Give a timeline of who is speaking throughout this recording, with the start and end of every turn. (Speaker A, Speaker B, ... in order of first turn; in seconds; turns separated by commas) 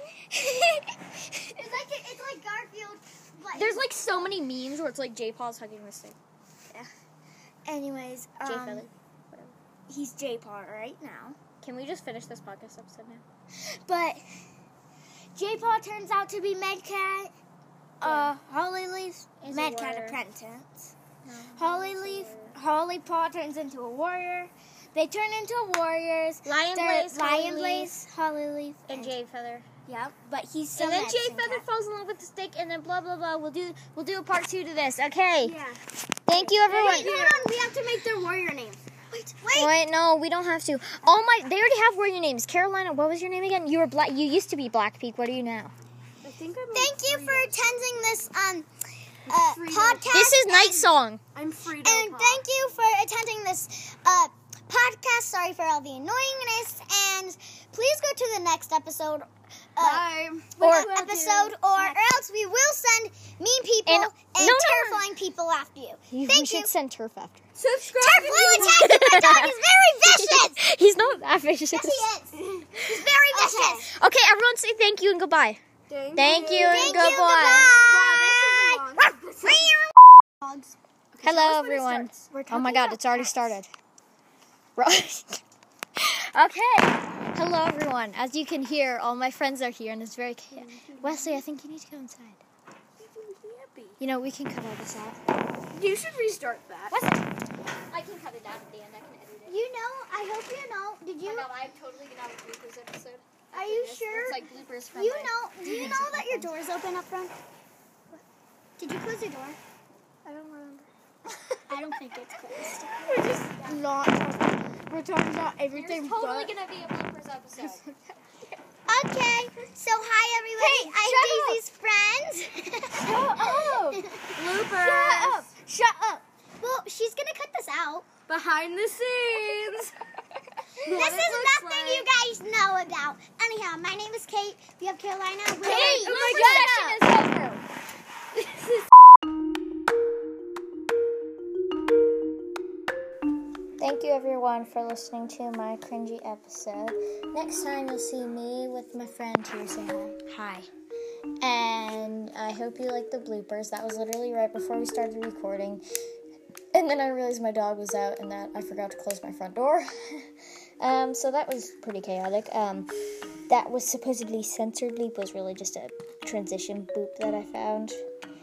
Speaker A: 0.3-0.9, Speaker B: 1.6-3.9, Speaker C: 3.5-6.2, Speaker A: 7.7-8.9, Speaker C: 8.4-9.6, Speaker A: 9.9-11.4, Speaker C: 11.6-13.2, Speaker A: 13.6-14.2, Speaker A: 15.3-17.3, Speaker A: 18.0-20.9, Speaker C: 18.0-18.4, Speaker C: 19.4-20.2, Speaker C: 21.2-22.6, Speaker A: 21.6-29.1, Speaker C: 26.4-28.0, Speaker C: 28.9-29.7, Speaker A: 29.9-31.6, Speaker C: 30.8-35.6, Speaker A: 35.4-35.8, Speaker C: 36.3-37.1, Speaker D: 36.4-37.5, Speaker A: 36.5-39.3, Speaker B: 39.4-39.7, Speaker C: 39.5-45.7, Speaker D: 46.2-48.3, Speaker B: 46.7-48.7, Speaker B: 49.3-50.9, Speaker D: 49.3-50.2, Speaker C: 50.1-51.2, Speaker D: 51.3-52.5, Speaker B: 51.8-60.1, Speaker D: 59.8-62.0, Speaker B: 60.6-66.7, Speaker C: 60.6-61.0, Speaker C: 63.9-65.1, Speaker C: 66.1-67.4, Speaker D: 67.6-68.8, Speaker B: 68.0-70.6, Speaker C: 68.6-72.1, Speaker B: 71.7-73.9, Speaker A: 72.8-73.9, Speaker C: 72.9-75.6, Speaker D: 75.9-77.1, Speaker C: 76.1-77.8, Speaker B: 76.6-78.8, Speaker A: 77.8-79.8, Speaker C: 79.0-79.8, Speaker B: 80.4-80.7, Speaker D: 81.2-82.1, Speaker C: 81.2-83.7, Speaker A: 82.3-82.9, Speaker B: 82.5-83.2, Speaker C: 84.8-85.4, Speaker C: 86.0-92.4, Speaker D: 90.8-91.1, Speaker D: 93.0-94.0, Speaker C: 94.0-95.2, Speaker D: 95.7-97.0, Speaker C: 96.9-97.2, Speaker C: 97.9-99.6, Speaker B: 99.5-101.5, Speaker C: 101.2-106.5, Speaker B: 103.5-107.3, Speaker B: 108.8-109.6, Speaker C: 110.2-110.9, Speaker B: 111.7-113.4, Speaker D: 113.0-113.7, Speaker A: 113.1-116.5, Speaker C: 115.7-118.0, Speaker B: 118.9-124.3, Speaker A: 120.6-121.6, Speaker C: 121.1-121.6, Speaker D: 123.0-125.5, Speaker A: 124.3-126.2, Speaker C: 124.8-125.5, Speaker B: 126.6-128.1, Speaker D: 128.3-129.9, Speaker D: 130.8-132.1, Speaker B: 130.8-136.8, Speaker D: 135.6-137.6, Speaker C: 135.6-137.6, Speaker D: 138.4-138.8, Speaker C: 143.8-150.7, Speaker C: 151.4-155.8, Speaker C: 156.7-160.3, Speaker C: 160.8-162.9, Speaker C: 163.5-168.0